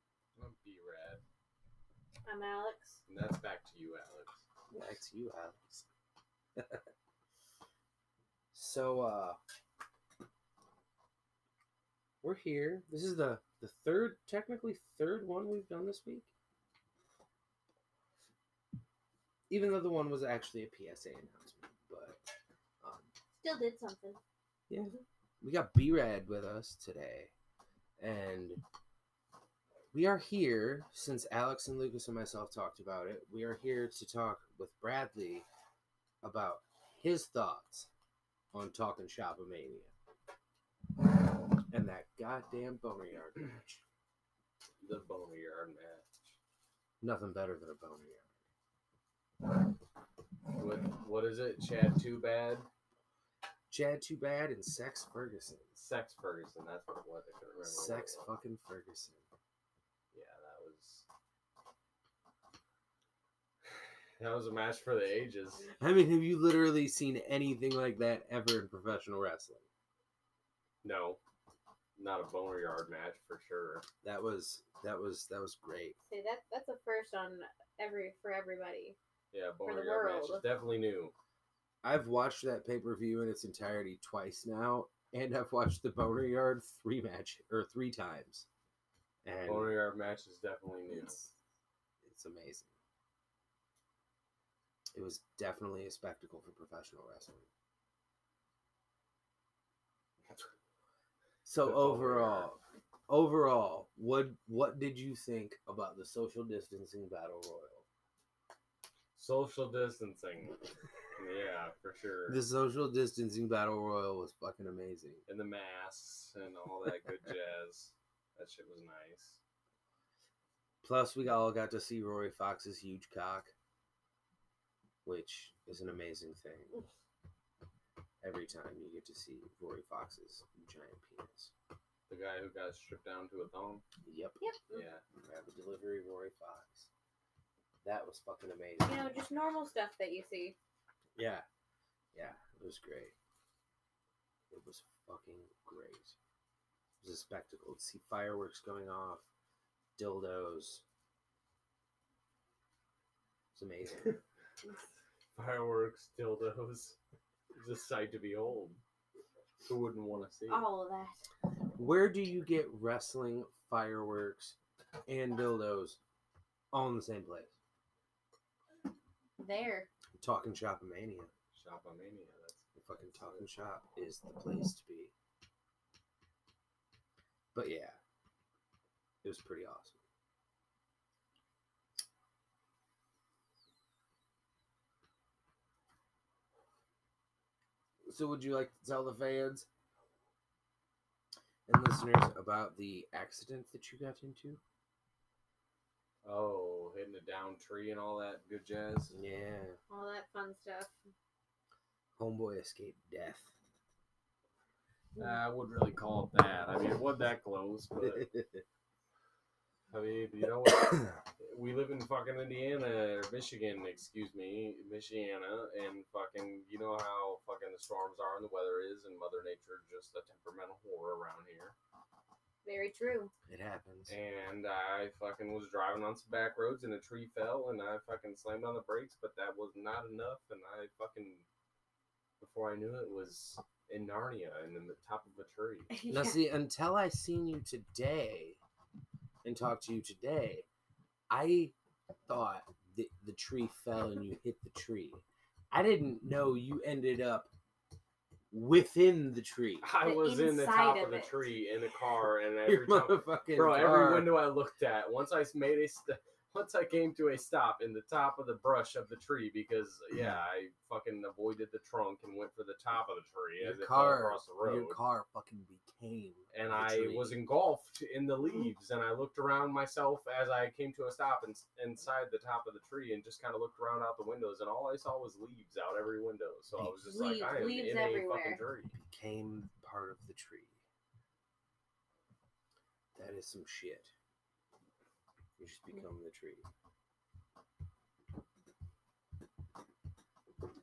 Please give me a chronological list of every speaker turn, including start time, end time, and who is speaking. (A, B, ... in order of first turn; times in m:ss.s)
0:00.4-0:01.2 A
0:02.2-0:03.0 B
0:03.1-0:04.4 A
0:04.7-0:05.9 C
0:08.5-0:09.4 C
0:12.2-0:16.3 C
0:19.5-0:22.2 C
0:22.8-0:23.1 C
0:23.4-0:24.2 B
0:24.7-0:27.3 C
0:28.0-0:28.6 C
0:29.9-0:35.5 C
0:36.2-0:37.9 C
0:38.5-0:39.9 C
0:41.6-0:43.8 C
0:44.8-0:46.1 A
0:47.0-0:48.3 C
0:50.6-0:52.7 A
0:53.7-0:55.7 C
0:55.8-0:58.3 A
0:57.6-0:59.2 C
1:00.1-1:01.1 A
1:03.8-1:05.7 A
1:05.8-1:09.6 C
1:10.8-1:11.2 A
1:12.0-1:13.9 A
1:14.0-1:16.0 C
1:16.1-1:19.0 B
1:19.3-1:21.1 A
1:19.6-1:20.5 B
1:21.8-1:28.5 C
1:29.2-1:29.8 C
1:29.4-1:31.2 A
1:30.9-1:31.3 C
1:32.0-1:32.7 C
1:34.9-1:37.5 C
1:41.4-1:47.8 C
1:41.6-1:42.5 A
1:49.2-1:50.6 A
1:51.2-1:52.4 A
1:52.3-1:55.2 C
1:55.3-1:59.4 A
2:00.8-2:03.5 C
2:05.0-2:06.8 C
2:08.2-2:11.5 C
2:12.1-2:13.8 A
2:14.0-2:14.4 C
2:14.4-2:14.8 B
2:14.7-2:15.0 A
2:15.2-2:16.9 C
2:17.8-2:19.1 C
2:18.8-2:20.6 B
2:21.2-2:21.5 C
2:22.2-2:23.2 C
2:24.5-2:26.2 C
2:27.0-2:29.3 C
2:30.0-2:30.8 C
2:33.5-2:34.2 C
2:35.4-2:37.0 A
2:37.6-2:38.8 A
2:39.7-2:40.7 A
2:40.5-2:41.3 B
2:41.8-2:46.0 C
2:46.7-2:47.5 C
2:49.4-2:49.9 B
2:50.2-2:51.3 C
2:51.5-2:53.5 A
2:52.8-2:55.1 C
2:57.5-2:58.0 C
2:59.2-3:00.0 C
3:08.1-3:09.7 C
3:11.7-3:14.6 C
3:16.2-3:19.2 A
3:19.1-3:19.8 C
3:19.9-3:21.0 B
3:22.2-3:23.6 C
3:25.2-3:28.3 A
3:28.0-3:28.6 C
3:29.9-3:41.8 A
3:42.6-3:43.3 B
3:43.5-3:44.2 C
3:44.1-3:51.5 A
3:52.4-3:55.9 A
3:55.9-3:56.4 B
3:56.1-3:58.6 C
3:59.4-4:00.7 C
4:01.3-4:01.7 C
4:02.3-4:07.5 C
4:08.5-4:09.9 C
4:09.8-4:25.0 A
4:10.0-4:11.4 B
4:12.6-4:14.4 C
4:23.6-4:27.4 C
4:26.5-4:39.0 A
4:36.8-4:38.6 B
4:39.0-4:40.8 C
4:43.2-4:44.1 C
4:45.6-4:46.7 C